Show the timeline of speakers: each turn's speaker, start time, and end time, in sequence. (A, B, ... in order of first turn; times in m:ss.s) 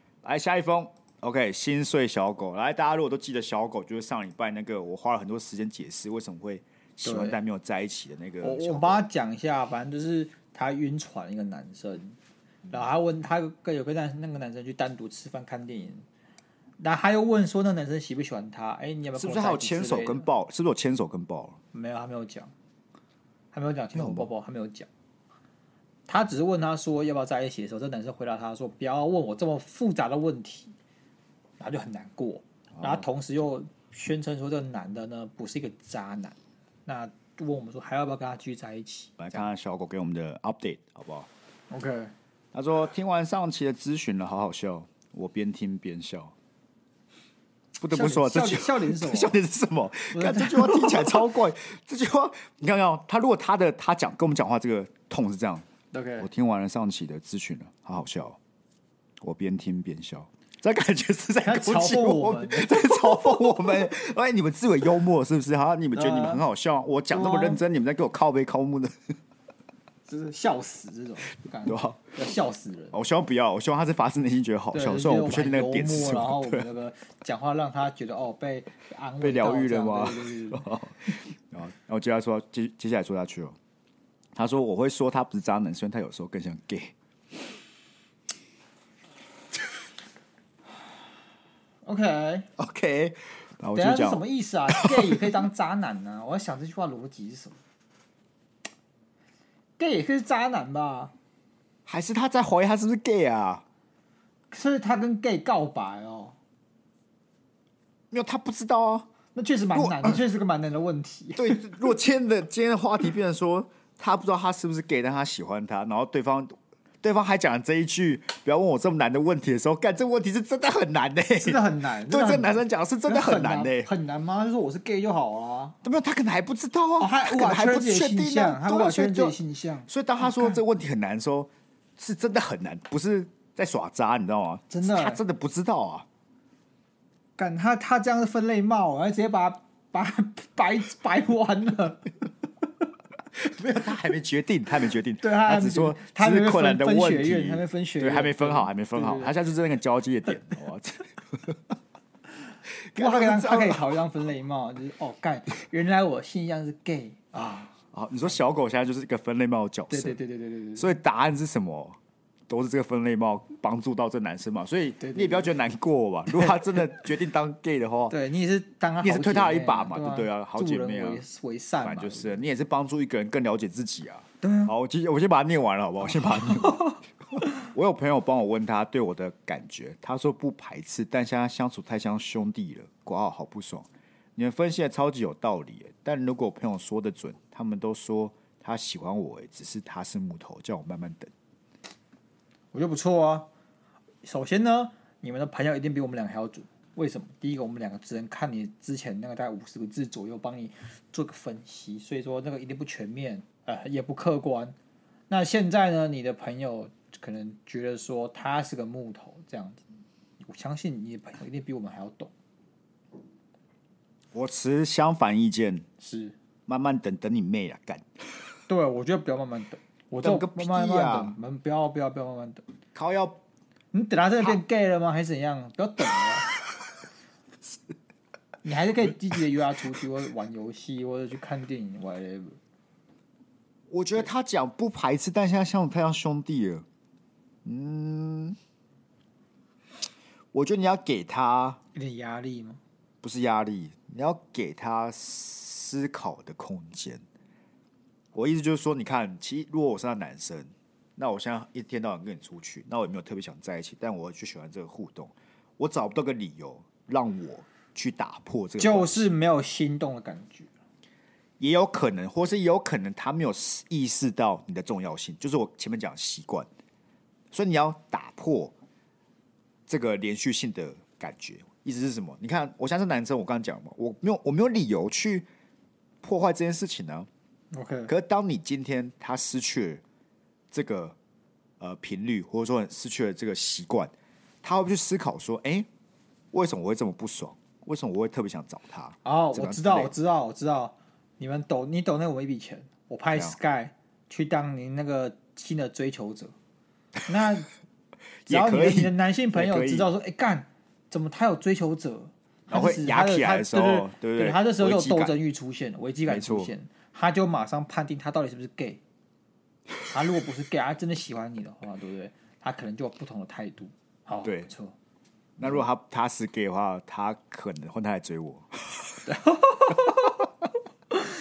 0:00.2-0:09.0 A
0:07.0-0:07.4 B
0:08.4-0:12.2 B
0:12.7-0:16.0 B
0:16.8-0:20.3 B
0:19.2-0:21.6 A
0:21.7-0:22.5 B
0:23.5-0:24.9 B
0:24.0-0:24.3 A
0:26.1-0:30.7 B
0:31.6-0:39.2 B
0:32.8-0:33.1 A
0:39.2-0:41.3 A
0:41.7-0:42.1 B
0:42.5-0:46.3 A
0:47.8-0:55.7 A
0:47.9-0:49.4 B
0:50.1-0:51.2 B
0:55.9-0:56.3 B
0:56.2-0:58.4 A
0:59.2-1:09.0 A
1:01.4-1:03.5 B
1:05.9-1:06.4 B
1:07.1-1:07.6 B
1:10.1-1:13.0 B
1:11.6-1:12.0 A
1:12.9-1:16.7 A
1:14.7-1:20.7 B
1:19.2-1:23.6 A
1:24.4-1:26.9 A
1:31.8-1:32.5 B
1:32.6-1:35.4 A
1:33.8-1:37.6 B
1:39.8-1:41.1 B
1:41.9-1:43.6 A
1:44.5-1:46.4 B
1:48.1-1:49.1 A
1:49.3-1:51.7 B
1:49.7-1:50.2 A
1:51.4-2:03.9 A
2:01.4-2:05.8 B
2:05.8-2:09.4 A
2:07.0-2:10.6 B
2:09.9-2:16.1 A
2:14.7-2:15.2 B
2:17.4-2:22.1 B
2:23.4-2:31.6 A
2:25.2-2:29.3 B
2:32.9-2:33.9 A
2:33.0-2:37.8 B
2:37.9-2:40.2 A
2:39.9-2:40.9 B
2:40.8-2:42.0 A
2:42.5-2:48.2 A
2:45.0-2:45.5 B
2:46.3-2:46.8 B
2:48.1-2:52.4 B
2:49.0-2:51.2 A
2:51.8-3:11.3 A
2:54.4-2:54.7 B
2:56.1-2:57.0 B
3:12.7-3:13.5 B
3:14.2-3:24.8 B
3:25.3-3:29.8 B
3:30.4-3:32.3 B
3:34.3-3:35.9 A
3:36.0-3:36.4 B
3:36.7-3:38.1 A
3:38.7-3:42.6 B
3:40.2-3:41.4 A
3:43.0-3:43.4 A
3:43.9-3:46.5 B
3:48.6-3:52.6 B
3:53.9-3:56.9 A
3:57.6-3:58.6 A
4:00.5-4:01.8 A
4:01.9-4:02.8 B
4:03.2-4:07.2 A
4:08.3-4:19.3 A
4:18.8-4:20.7 B
4:21.6-4:26.7 A
4:27.5-4:28.7 A
4:29.9-4:35.5 A
4:36.2-4:37.3 A
4:37.7-4:38.1 B
4:38.1-4:40.0 A
4:40.7-4:41.2 A
4:41.8-4:44.1 A
4:44.6-4:45.9 A
4:46.5-4:50.1 A
4:49.2-4:56.5 B
4:57.3-4:57.7 B
4:58.5-5:00.1 A
4:58.5-5:09.0 B
5:02.7-5:05.3 A
5:06.3-5:06.7 A
5:10.1-5:15.0 B
5:14.4-5:14.7 A
5:15.6-5:19.3 A
5:19.2-5:20.4 B